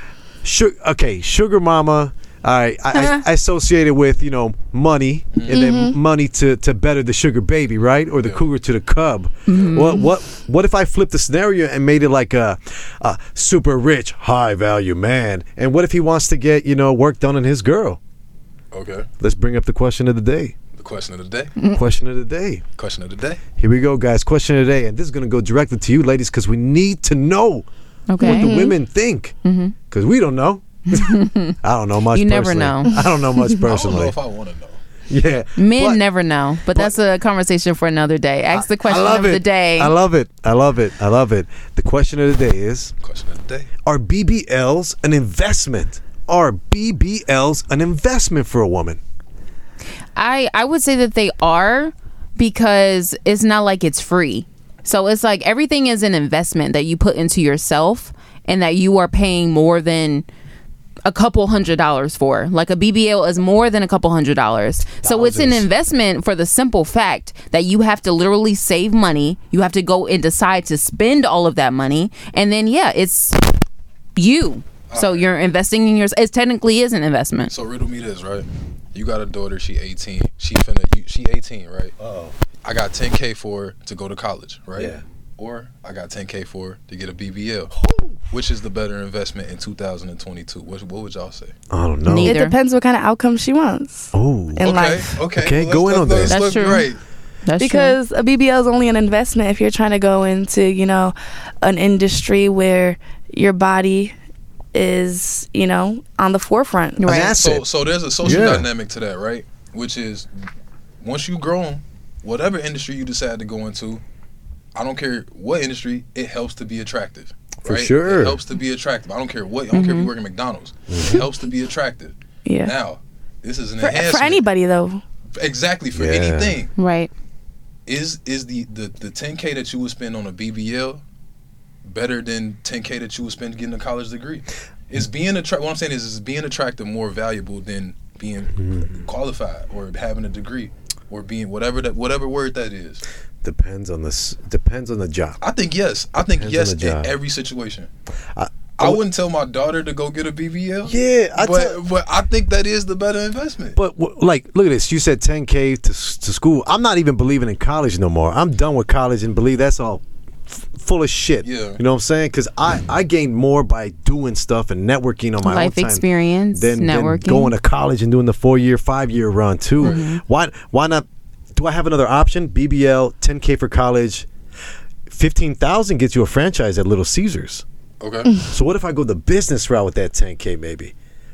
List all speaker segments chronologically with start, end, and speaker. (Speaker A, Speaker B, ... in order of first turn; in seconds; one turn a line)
Speaker A: 0.4-18.0
Speaker B: 2.9-3.2
Speaker C: 5.3-5.6
Speaker D: 5.5-6.0
Speaker C: 8.2-8.5
Speaker B: 9.5-10.1
Speaker C: 9.5-9.8
Speaker C: 18.7-19.1
Speaker A: 19.2-20.5
Speaker C: 20.7-21.6
Speaker A: 21.7-22.6
Speaker C: 22.8-23.4
Speaker A: 23.6-27.6
Speaker B: 28.1-28.6
Speaker A: 28.2-29.3
Speaker D: 28.2-28.7
Speaker B: 29.4-29.7
Speaker A: 29.9-34.1
Speaker B: 30.9-31.6
Speaker B: 32.1-32.9
Speaker C: 33.6-34.8
Speaker A: 35.1-36.0
Speaker B: 35.6-39.9
Speaker A: 38.5-42.9
Speaker C: 43.0-43.7
Speaker A: 43.8-49.0
Speaker B: 50.1-60.2
Speaker B: 61.0-73.4
Speaker A: 65.0-65.7
Speaker B: 74.1-77.5
Speaker C: 74.9-75.3
Speaker C: 77.5-81.9
Speaker A: 82.0-82.3
Speaker C: 82.6-87.7
Speaker A: 84.8-85.0
Speaker A: 87.7-88.2
Speaker C: 88.3-91.5
Speaker A: 91.7-92.3
Speaker B: 92.0-92.5
Speaker D: 92.2-95.1
Speaker A: 94.1-94.8
Speaker C: 94.6-97.0
Speaker A: 95.3-96.5
Speaker B: 96.3-96.9
Speaker B: 97.5-98.0
Speaker D: 97.6-104.1
Speaker D: 104.7-107.2
Speaker B: 107.0-107.3
Speaker A: 107.0-107.6
Speaker C: 107.3-110.3
Speaker A: 108.2-108.7
Speaker C: 111.0-114.0
Speaker C: 114.7-124.4
Speaker A: 117.6-118.4
Speaker B: 119.7-120.1
Speaker A: 120.9-121.2
Speaker D: 122.4-122.7
Speaker D: 123.8-125.0
Speaker C: 125.4-126.7
Speaker A: 125.9-126.6
Speaker B: 126.8-127.1
Speaker C: 127.9-131.0
Speaker C: 131.8-143.0
Speaker A: 138.6-138.9
Speaker A: 143.4-145.4
Speaker C: 145.4-147.9
Speaker A: 146.4-147.1
Speaker A: 148.3-149.0
Speaker C: 148.8-153.8
Speaker A: 150.8-151.8
Speaker A: 153.7-174.3
Speaker C: 161.4-161.8
Speaker B: 165.4-167.5
Speaker B: 169.8-170.2
Speaker A: 175.1-177.6
Speaker C: 178.0-178.3
Speaker A: 178.5-180.9